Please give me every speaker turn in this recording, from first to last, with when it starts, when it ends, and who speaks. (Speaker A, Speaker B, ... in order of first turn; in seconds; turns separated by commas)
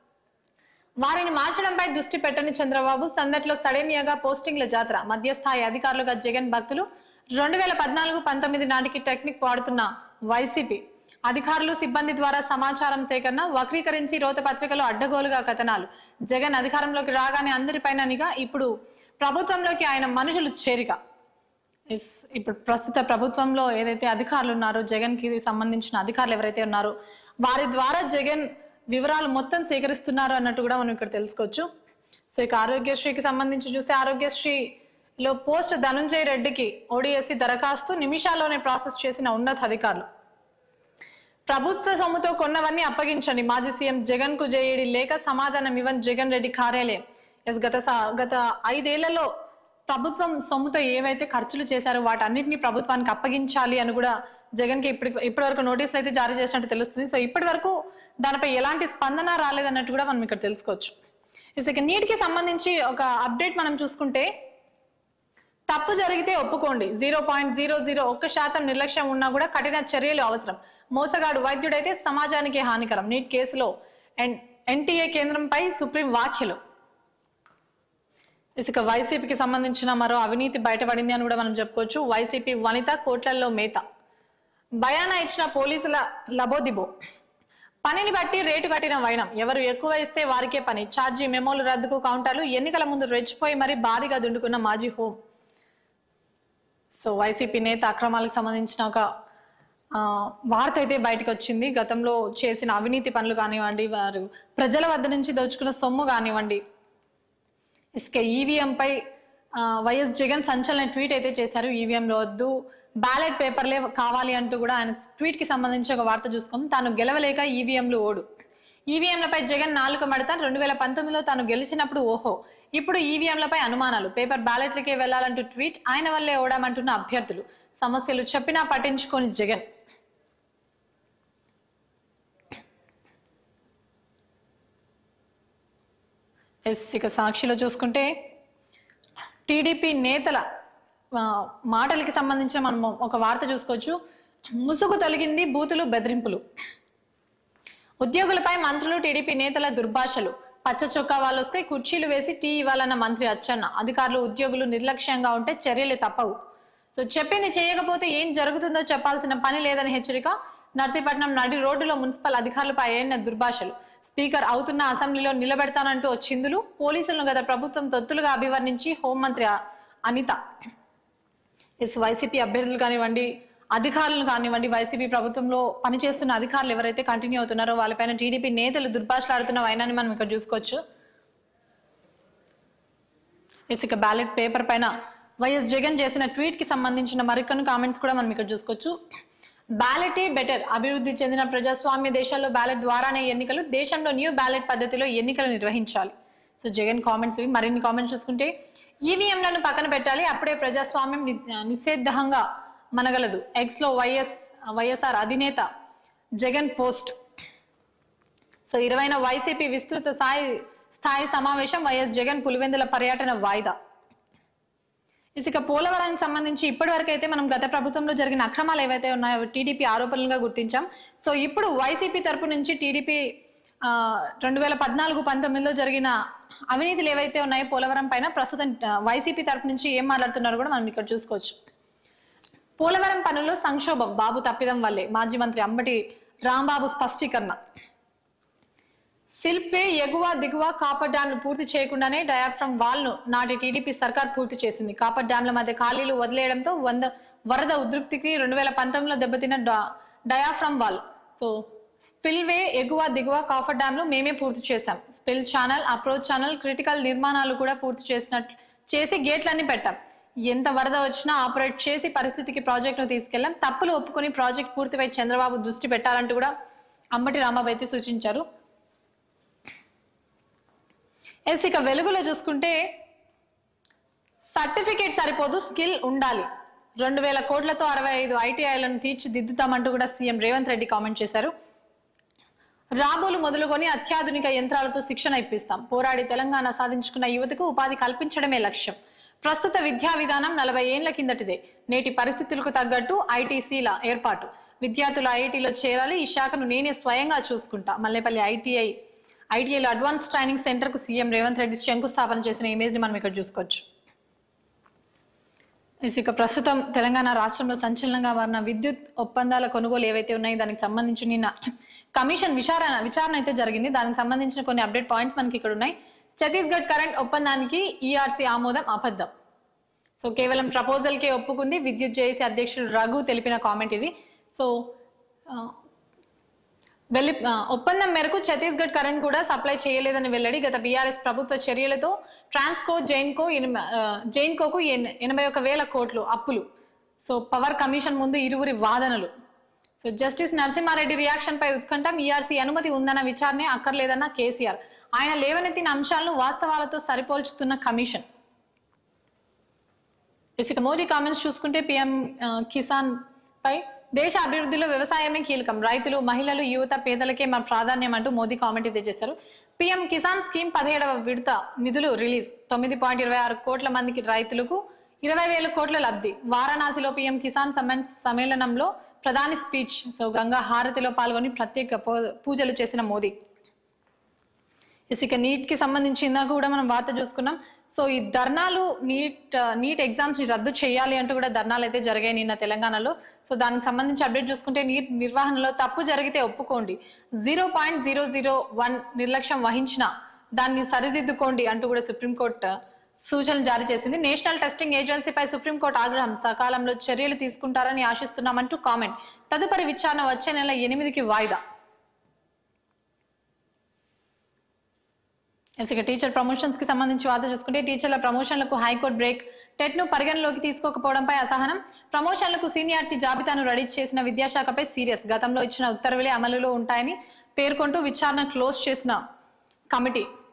Speaker A: 1.0-18.7, Speaker A: 19.2-21.0, Speaker A: 21.9-31.7, Speaker A: 32.3-40.1, Speaker A: 41.5-49.3, Speaker A: 49.9-60.9, Speaker A: 61.6-64.3, Speaker A: 65.7-76.6, Speaker A: 78.6-83.8, Speaker A: 84.8-86.9, Speaker A: 87.8-95.2, Speaker A: 97.0-99.1, Speaker A: 100.0-106.6, Speaker A: 108.0-109.0, Speaker A: 109.6-118.2, Speaker A: 118.9-129.7, Speaker A: 136.7-138.1, Speaker A: 139.5-140.4, Speaker A: 141.1-144.0, Speaker A: 144.6-146.4, Speaker A: 148.0-156.3, Speaker A: 156.9-169.6, Speaker A: 170.1-170.4, Speaker A: 171.8-180.8, Speaker A: 183.7-188.9, Speaker A: 189.8-198.5, Speaker A: 199.1-202.4, Speaker A: 203.0-205.7, Speaker A: 206.4-207.1, Speaker A: 208.7-213.7, Speaker A: 215.4-223.2, Speaker A: 223.8-226.1, Speaker A: 226.7-231.6, Speaker A: 232.8-237.6, Speaker A: 239.4-266.5, Speaker A: 267.1-268.4, Speaker A: 271.5-272.8, Speaker A: 274.5-276.5, Speaker A: 277.0-281.5, Speaker A: 283.0-298.9, Speaker A: 299.5-303.8, Speaker A: 306.1-311.5, Speaker A: 312.2-319.3, Speaker A: 320.2-325.0, Speaker A: 325.5-325.8, Speaker A: 327.1-336.7, Speaker A: 337.2-339.3, Speaker A: 340.0-348.2, Speaker A: 350.6-373.3, Speaker A: 375.1-401.6, Speaker A: 405.8-419.2, Speaker A: 419.9-420.3